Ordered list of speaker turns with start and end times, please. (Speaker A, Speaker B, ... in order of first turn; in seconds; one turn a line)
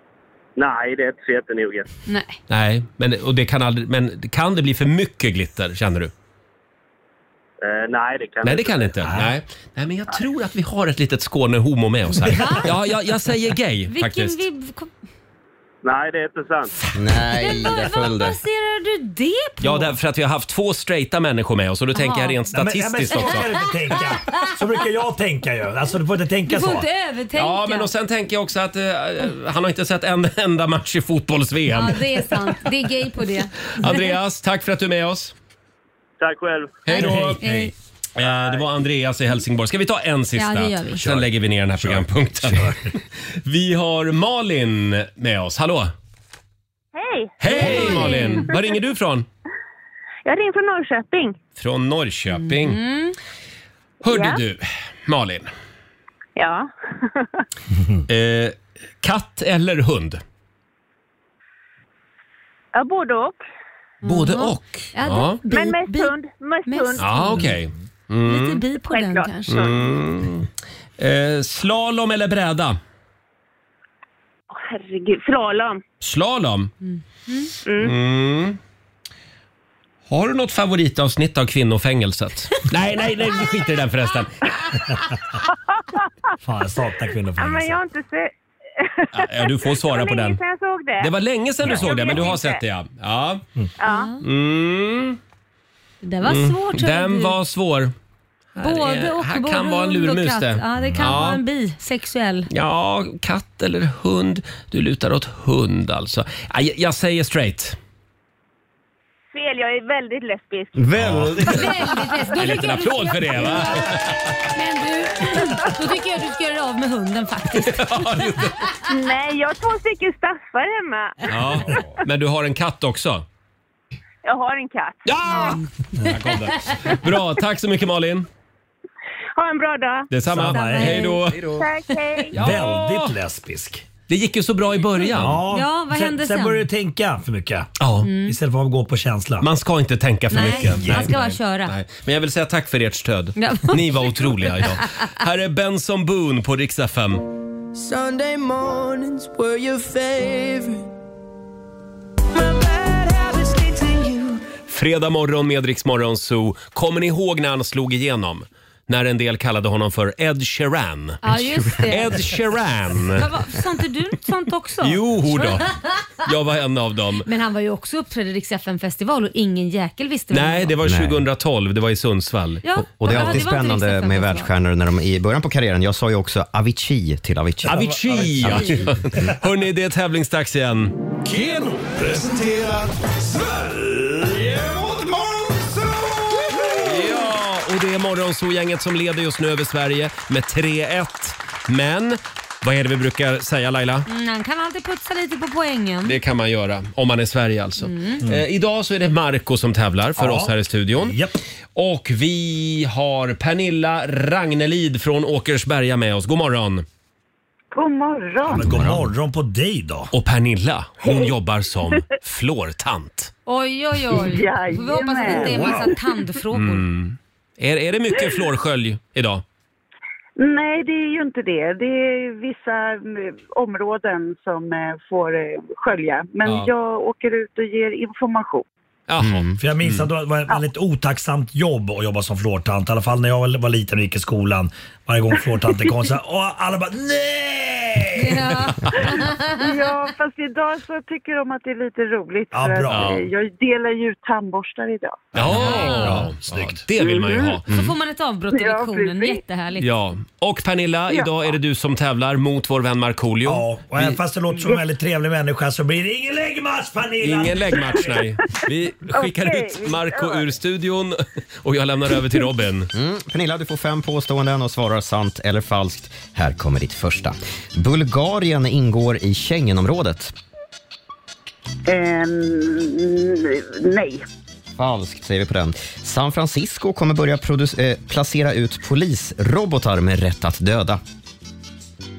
Speaker A: 0.6-1.9
Speaker B: 2.1-2.4
Speaker C: 2.5-6.1
Speaker A: 7.6-8.9
Speaker C: 8.4-14.4
Speaker D: 9.0-9.3
Speaker B: 12.2-12.7
Speaker B: 13.9-14.9
Speaker A: 15.8-16.7
Speaker E: 16.9-18.4
Speaker B: 17.3-19.9
Speaker C: 19.6-23.5
Speaker B: 21.9-22.4
Speaker D: 22.5-26.9
Speaker B: 26.5-27.9
Speaker C: 27.4-32.4
Speaker B: 31.7-34.1
Speaker C: 33.8-35.3
Speaker A: 36.2-36.8
Speaker C: 36.9-37.4
Speaker B: 36.9-37.7
Speaker D: 36.9-37.7
Speaker C: 38.2-45.9
Speaker A: 38.2-38.6
Speaker B: 40.4-41.0
Speaker D: 41.0-42.9
Speaker F: 46.9-48.4
Speaker C: 47.4-49.3
Speaker B: 47.5-48.5
Speaker F: 50.2-51.4
Speaker C: 51.6-52.8
Speaker B: 52.3-53.2
Speaker C: 54.0-55.5
Speaker F: 54.1-54.4
Speaker F: 56.4-57.4
Speaker C: 58.1-60.2
Speaker F: 62.7-63.4
Speaker B: 64.0-66.1
Speaker C: 64.0-65.4
Speaker F: 65.5-67.2
Speaker B: 66.7-67.5
Speaker C: 67.0-68.6
Speaker B: 68.2-69.7
Speaker F: 68.9-69.8
Speaker C: 69.5-72.8
Speaker F: 74.5-75.8
Speaker C: 76.0-76.7
Speaker B: 76.8-77.5
Speaker F: 77.7-78.0
Speaker C: 77.8-78.6
Speaker C: 80.1-84.4
Speaker D: 86.4-87.8
Speaker F: 87.4-92.6
Speaker C: 89.1-90.4
Speaker C: 91.0-93.4
Speaker F: 93.8-94.1
Speaker B: 93.9-94.2
Speaker C: 94.2-95.2
Speaker B: 96.0-97.3
Speaker C: 96.2-97.9
Speaker C: 98.6-101.4
Speaker B: 98.6-102.5
Speaker C: 102.5-107.8
Speaker F: 109.3-110.8
Speaker E: 110.8-111.7
Speaker C: 111.0-111.5
Speaker B: 111.5-113.9
Speaker C: 112.3-114.4
Speaker B: 114.5-118.6
Speaker C: 117.6-118.7
Speaker F: 118.9-121.3
Speaker C: 121.3-123.2
Speaker F: 124.2-125.6
Speaker C: 125.1-128.3
Speaker F: 129.4-130.1
Speaker C: 130.1-131.6
Speaker D: 130.3-131.2
Speaker B: 130.5-131.2
Speaker F: 131.5-132.3
Speaker C: 132.3-133.2
Speaker D: 132.3-133.9
Speaker C: 134.1-135.4
Speaker B: 135.0-136.6
Speaker D: 135.1-137.7
Speaker C: 137.8-138.1
Speaker B: 138.0-138.4
Speaker D: 138.2-139.5
Speaker C: 139.4-147.2
Speaker B: 140.3-141.7
Speaker D: 140.3-141.1
Speaker B: 143.4-144.7
Speaker G: 147.7-150.9
Speaker G: 152.3-154.4
Speaker C: 154.7-163.3
Speaker B: 161.2-162.2
Speaker B: 163.2-166.1
Speaker C: 164.8-167.3
Speaker B: 167.2-170.7
Speaker C: 170.3-173.4
Speaker E: 170.8-171.2
Speaker B: 172.6-174.5
Speaker E: 172.8-178.9
Speaker D: 177.6-179.2
Speaker C: 177.7-180.9
Speaker H: 181.2-186.5
Speaker C: 186.8-194.1
Speaker B: 194.1-196.2
Speaker C: 196.0-201.2
Speaker B: 197.8-198.2
Speaker D: 200.2-201.4
Speaker C: 201.8-206.8
Speaker I: 207.7-208.8
Speaker E: 208.5-209.1
Speaker D: 208.5-210.1
Speaker C: 210.1-213.3
Speaker B: 213.5-216.9
Speaker I: 214.1-215.9
Speaker D: 215.3-215.9
Speaker C: 216.5-219.4
Speaker I: 220.4-228.6
Speaker C: 229.1-230.1
Speaker E: 229.2-229.5
Speaker D: 229.6-238.8
Speaker B: 238.2-239.7
Speaker I: 239.6-245.3
Speaker D: 242.5-243.2
Speaker C: 242.9-243.2
Speaker D: 245.3-246.8
Speaker C: 245.3-247.7
Speaker B: 245.5-246.2
Speaker I: 247.0-247.6
Speaker B: 247.7-249.9
Speaker I: 248.5-249.4
Speaker C: 249.8-254.2
Speaker D: 253.4-258.2
Speaker I: 254.5-254.8
Speaker C: 257.2-262.9
Speaker I: 259.1-260.5
Speaker E: 262.9-270.3
Speaker I: 271.9-274.2
Speaker E: 274.8-281.0